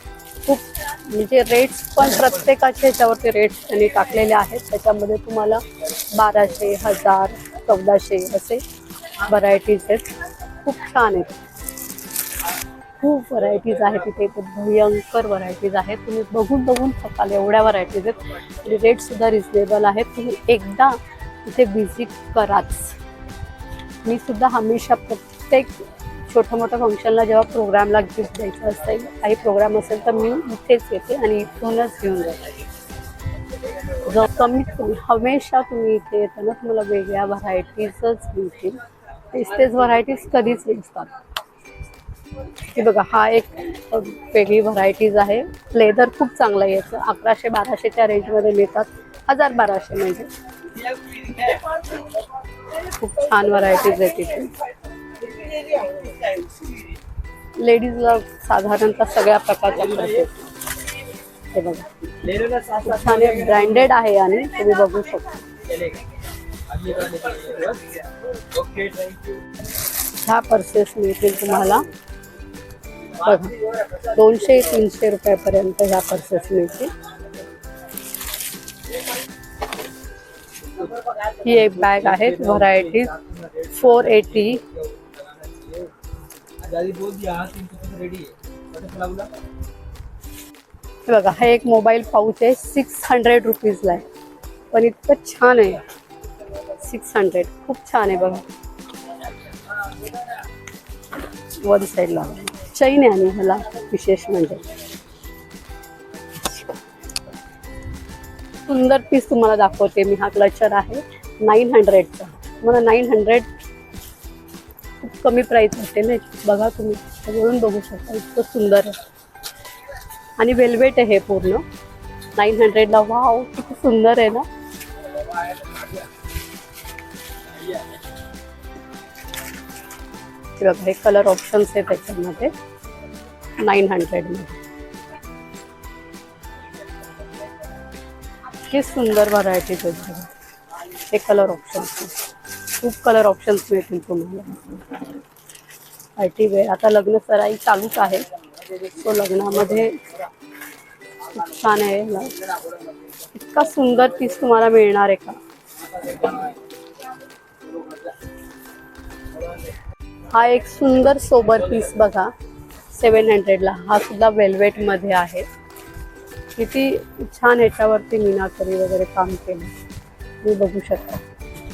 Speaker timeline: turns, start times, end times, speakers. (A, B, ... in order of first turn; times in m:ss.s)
0:00.4-0:08.6 A
0:09.2-0:11.4 A
0:13.0-0:23.0 A
0:24.0-0:32.6 A
0:33.9-0:41.2 A
0:42.6-0:50.3 A
0:52.8-0:54.5 A
0:55.4-0:56.6 B
0:57.6-1:00.5 A
1:00.0-1:00.2 B
1:01.5-1:05.5 A
1:02.2-1:03.7 B
1:05.7-1:06.0 B
1:06.7-1:09.4 B
1:10.2-1:11.9 A
1:13.2-1:16.9 A
1:20.8-1:25.9 B
1:21.4-1:23.2 A
1:23.7-1:24.6 A
1:26.6-1:29.3 B
1:31.1-1:34.1 A
1:34.7-1:35.8 A
1:36.8-1:38.4 A
1:41.6-1:44.7 A
1:48.7-1:53.5 A
1:55.0-1:59.0 A
2:00.4-2:01.6 A
2:02.4-2:04.5 A
2:10.6-2:12.5 A
2:13.6-2:14.6 A
2:18.5-2:20.3 A
2:21.0-2:22.2 A
2:22.8-2:24.7 A
2:26.2-2:30.1 A
2:31.2-2:32.5 A
2:33.3-2:35.4 A
2:40.3-2:42.3 A
2:42.9-2:45.5 A
2:46.6-2:49.8 A
2:50.4-2:51.2 A